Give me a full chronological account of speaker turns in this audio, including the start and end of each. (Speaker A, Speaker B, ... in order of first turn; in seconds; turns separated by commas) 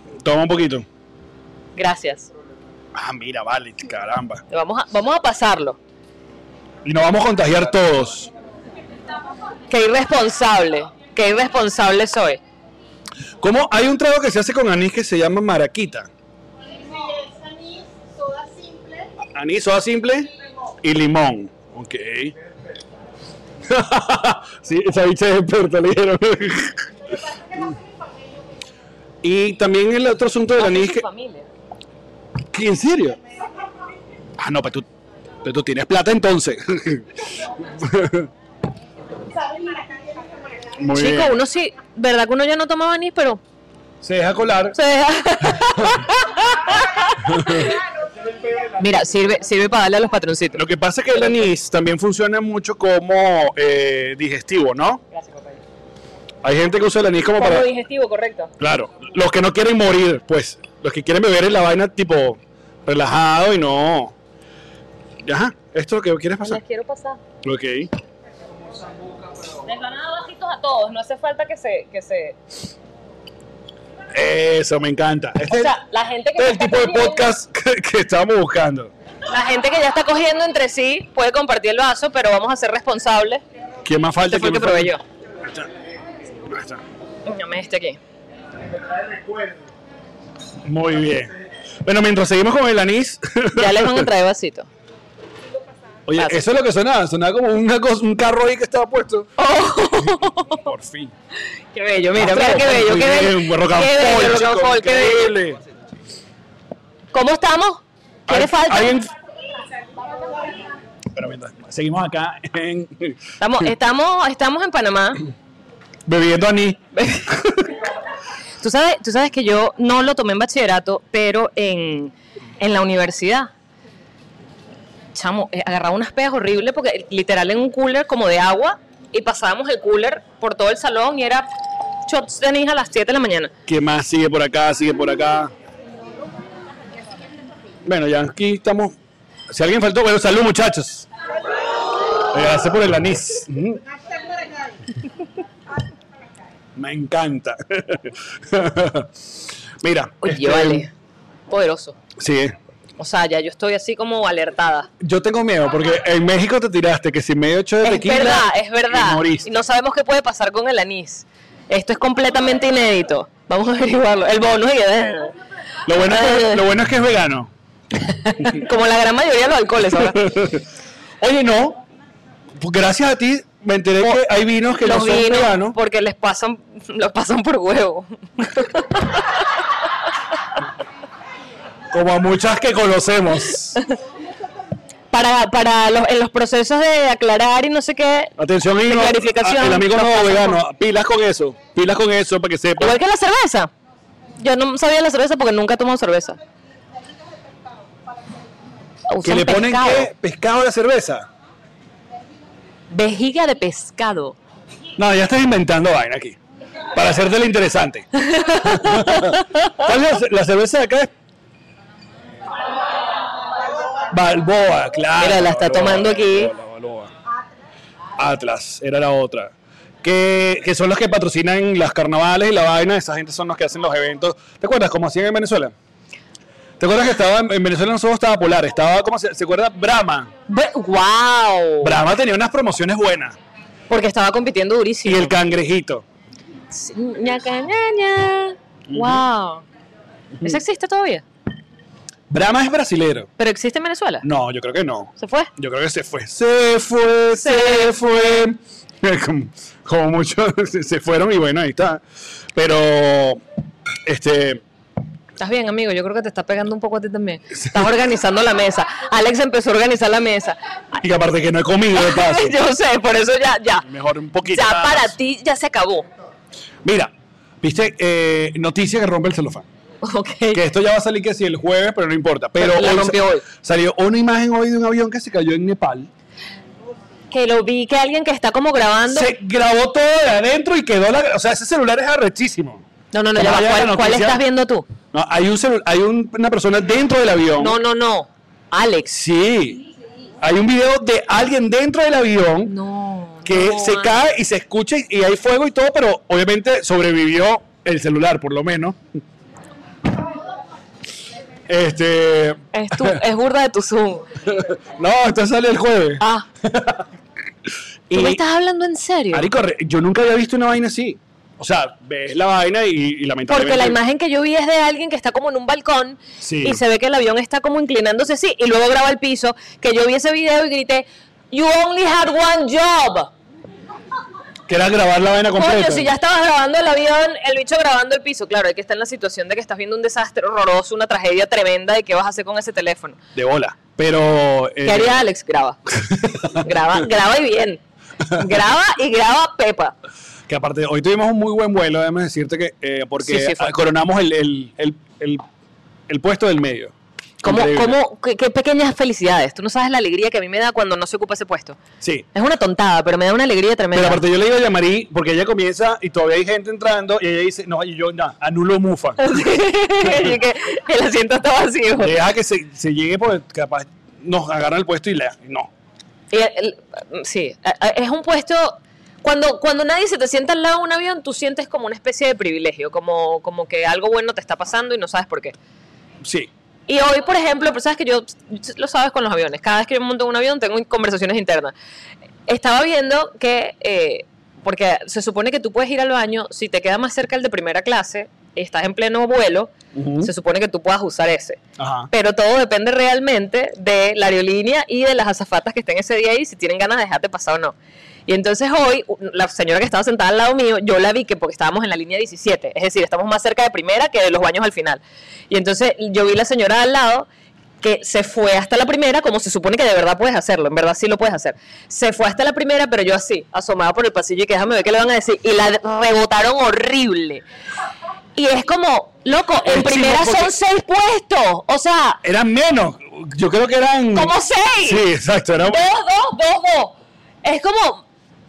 Speaker A: 0.2-0.8, Speaker B: 1.8-2.3, Speaker A: 2.9-4.4, Speaker B: 4.5-5.8, Speaker A: 6.8-8.3, Speaker B: 9.7-12.4, Speaker A: 13.4-16.1, Speaker C: 16.7-19.1, Speaker A: 19.3-20.3, Speaker A: 20.8-22.3, Speaker A: 23.6-26.9, Speaker A: 29.2-31.0, Speaker B: 30.6-31.5, Speaker A: 32.5-33.2, Speaker A: 34.4-34.9, Speaker A: 35.4-37.1, Speaker A: 37.7-38.3, Speaker C: 39.3-40.8, Speaker A: 40.8-41.4, Speaker B: 40.9-43.4, Speaker A: 44.0-44.8, Speaker B: 44.7-47.7, Speaker A: 45.5-46.0, Speaker A: 47.2-47.7, Speaker B: 48.8-50.6, Speaker A: 50.5-55.0, Speaker B: 55.1-55.6, Speaker A: 56.4-57.7, Speaker B: 57.4-58.5, Speaker A: 58.6-64.1, Speaker A: 65.2-66.6, Speaker B: 66.4-67.2, Speaker A: 67.4-67.9, Speaker B: 69.6-72.4, Speaker A: 74.1-75.7, Speaker B: 75.5-77.3, Speaker A: 76.3-78.9, Speaker B: 79.3-83.4, Speaker A: 83.8-85.7, Speaker B: 84.3-85.0, Speaker A: 86.3-86.8, Speaker B: 87.2-88.0, Speaker A: 90.6-91.3, Speaker A: 91.8-94.1, Speaker B: 93.5-94.7, Speaker A: 96.1-99.3, Speaker B: 99.4-100.6, Speaker A: 100.0-101.1, Speaker B: 101.7-105.3, Speaker A: 102.2-105.6, Speaker B: 107.1-109.0, Speaker A: 108.3-109.1, Speaker A: 111.1-113.2, Speaker B: 113.4-115.2, Speaker A: 116.0-117.6, Speaker B: 117.0-117.2, Speaker B: 118.6-123.5, Speaker B: 125.1-131.5, Speaker B: 132.1-133.5, Speaker A: 133.7-135.5, Speaker A: 137.8-138.9, Speaker A: 139.5-141.1, Speaker A: 142.3-143.8, Speaker C: 143.8-144.8, Speaker A: 146.8-150.9, Speaker B: 150.2-150.9, Speaker B: 151.5-152.0, Speaker A: 152.2-152.5, Speaker B: 153.0-154.9, Speaker A: 155.0-159.5, Speaker B: 157.8-165.3, Speaker A: 165.9-167.5, Speaker B: 166.1-166.6, Speaker B: 168.1-170.3, Speaker A: 169.9-170.6, Speaker A: 171.2-171.8, Speaker A: 172.6-175.8, Speaker B: 174.8-179.4, Speaker A: 181.9-183.8, Speaker B: 185.1-188.3, Speaker A: 188.4-192.9, Speaker B: 188.8-190.6, Speaker B: 192.8-193.7, Speaker B: 194.4-196.4, Speaker B: 199.1-200.1, Speaker A: 199.2-201.3, Speaker B: 202.9-204.4, Speaker A: 205.0-206.4, Speaker A: 206.9-211.1, Speaker B: 208.2-209.4, Speaker A: 214.1-217.1, Speaker B: 215.2-216.5, Speaker A: 218.2-225.7, Speaker A: 226.8-230.3, Speaker B: 230.5-232.0, Speaker A: 231.8-233.4, Speaker B: 233.9-235.3, Speaker A: 235.0-236.0, Speaker B: 236.7-239.6, Speaker A: 238.9-239.2, Speaker B: 240.4-241.2, Speaker A: 242.3-243.3, Speaker B: 243.4-244.2, Speaker A: 244.2-252.0, Speaker B: 245.2-245.5, Speaker B: 247.4-248.0, Speaker A: 252.5-253.4, Speaker A: 254.0-254.6, Speaker B: 255.4-260.6, Speaker A: 261.0-262.5, Speaker B: 261.9-263.9, Speaker A: 263.9-265.1, Speaker B: 264.5-266.1, Speaker A: 266.8-269.6, Speaker B: 270.0-270.6, Speaker A: 270.5-276.1, Speaker B: 272.6-273.4, Speaker B: 277.3-279.3, Speaker A: 279.1-284.4, Speaker B: 283.1-284.9, Speaker A: 285.1-287.8, Speaker B: 287.6-289.1, Speaker A: 289.1-289.8, Speaker A: 290.4-292.7, Speaker B: 292.7-294.1, Speaker A: 293.4-299.0, Speaker A: 301.7-303.2, Speaker B: 302.7-304.2, Speaker A: 304.5-307.1, Speaker B: 306.2-306.4, Speaker A: 308.1-308.4, Speaker B: 308.1-309.5, Speaker A: 309.3-314.0, Speaker B: 313.5-323.3, Speaker A: 316.4-316.8, Speaker A: 324.7-326.1, Speaker B: 325.6-333.2, Speaker A: 333.3-335.2, Speaker B: 334.8-335.8, Speaker A: 336.0-336.6, Speaker B: 336.6-337.8, Speaker B: 338.3-339.9, Speaker A: 340.5-345.4, Speaker B: 343.2-343.7, Speaker A: 346.1-348.0, Speaker B: 347.4-351.8, Speaker A: 352.0-352.3, Speaker B: 352.3-354.2, Speaker A: 353.9-359.4, Speaker B: 359.2-362.2, Speaker A: 360.0-360.4, Speaker A: 362.0-365.7, Speaker B: 366.3-375.5, Speaker A: 376.2-376.5, Speaker B: 376.9-381.7, Speaker B: 382.5-391.6, Speaker A: 389.9-390.3, Speaker A: 391.8-392.1, Speaker B: 392.1-397.7, Speaker B: 398.3-407.3, Speaker B: 407.8-417.4, Speaker B: 418.4-422.2, Speaker A: 419.6-420.5, Speaker A: 422.2-425.8, Speaker B: 424.1-425.1, Speaker B: 425.6-428.0